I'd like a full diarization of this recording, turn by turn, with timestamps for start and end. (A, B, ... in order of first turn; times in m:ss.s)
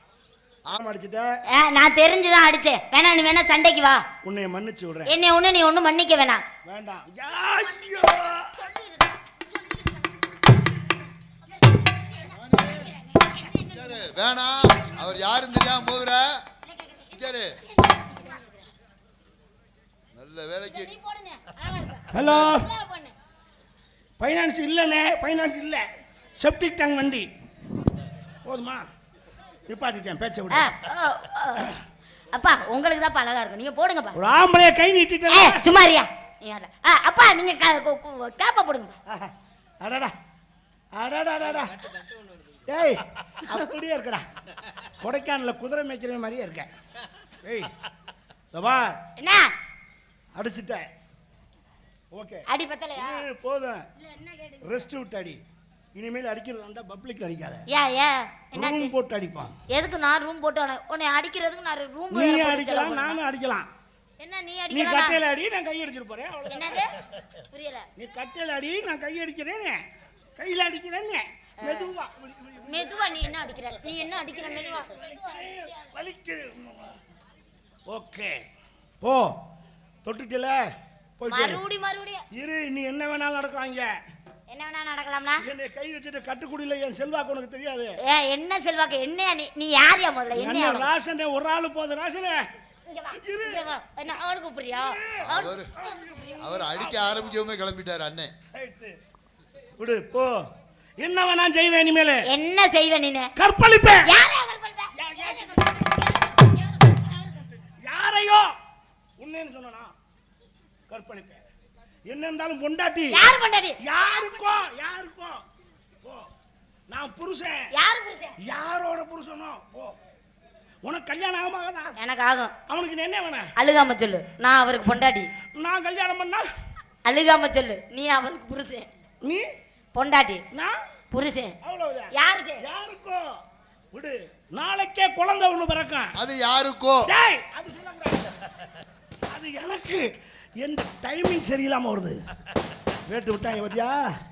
0:00.8-0:01.3 A
0:01.5-0:04.1 B
0:04.2-0:05.1 A
0:05.1-0:06.4 B
0:06.6-0:08.6 A
0:07.5-0:10.0 B
0:11.7-0:14.0 B
0:12.5-0:12.8 C
0:13.6-0:16.4 C
0:16.7-0:18.5 B
0:17.1-0:17.5 C
0:20.2-0:20.9 C
0:20.7-0:23.1 B
0:22.1-0:22.7 A
0:24.2-0:25.9 A
0:26.4-0:27.3 A
0:28.4-0:28.9 A
0:29.7-0:30.7 A
0:30.5-0:31.7 B
0:32.3-0:34.2 B
0:34.2-0:35.6 A
0:35.3-0:39.0 B
0:39.1-0:40.1 A
0:40.9-0:41.8 A
0:42.7-0:44.2 A
0:45.0-0:46.7 A
0:47.4-0:47.7 A
0:48.5-0:49.0 A
0:49.2-0:49.5 B
0:50.4-0:50.9 A
0:52.1-0:52.4 A
0:52.5-0:53.2 B
0:53.0-0:53.8 A
0:54.0-0:54.9 B
0:54.6-0:55.4 A
0:56.0-0:57.6 A
0:57.7-0:58.9 B
0:58.5-0:59.6 A
0:59.7-1:03.2 B
1:02.1-1:03.7 A
1:04.2-1:05.2 B
1:04.7-1:07.0 A
1:06.5-1:07.0 B
1:07.5-1:07.9 B
1:08.0-1:09.8 A
1:10.4-1:13.4 A
1:11.6-1:11.9 B
1:12.6-1:15.7 B
1:14.2-1:17.0 A
1:17.9-1:18.4 A
1:19.0-1:19.4 A
1:20.0-1:20.6 A
1:21.2-1:21.6 A
1:21.3-1:22.2 B
1:22.3-1:24.0 A
1:24.5-1:25.5 B
1:25.4-1:28.0 A
1:28.0-1:30.9 B
1:30.3-1:32.4 A
1:32.9-1:35.6 B
1:33.2-1:33.7 A
1:34.7-1:37.3 A
1:35.3-1:35.7 C
1:36.4-1:38.3 C
1:38.5-1:39.0 A
1:39.8-1:40.4 A
1:41.0-1:42.3 A
1:42.3-1:43.3 B
1:43.4-1:44.1 A
1:44.0-1:47.4 B
1:45.0-1:45.9 A
1:47.8-1:48.5 A
1:49.2-1:49.9 A
1:50.9-1:51.5 A
1:52.1-1:53.3 A
1:53.1-1:54.5 B
1:53.8-1:55.4 A
1:56.0-1:56.3 A
1:56.9-1:57.7 A
1:57.7-1:58.4 B
1:58.4-2:00.0 A
2:00.8-2:01.9 A
2:02.0-2:02.5 B
2:02.7-2:03.5 A
2:03.6-2:05.3 B
2:05.6-2:06.5 A
2:07.1-2:08.9 B
2:09.2-2:09.5 A
2:09.9-2:10.4 B
2:11.1-2:11.6 B
2:11.6-2:13.3 A
2:12.1-2:12.6 B
2:13.9-2:16.2 A
2:16.2-2:17.1 C
2:17.0-2:18.5 A
2:19.3-2:22.2 A
2:23.1-2:24.0 A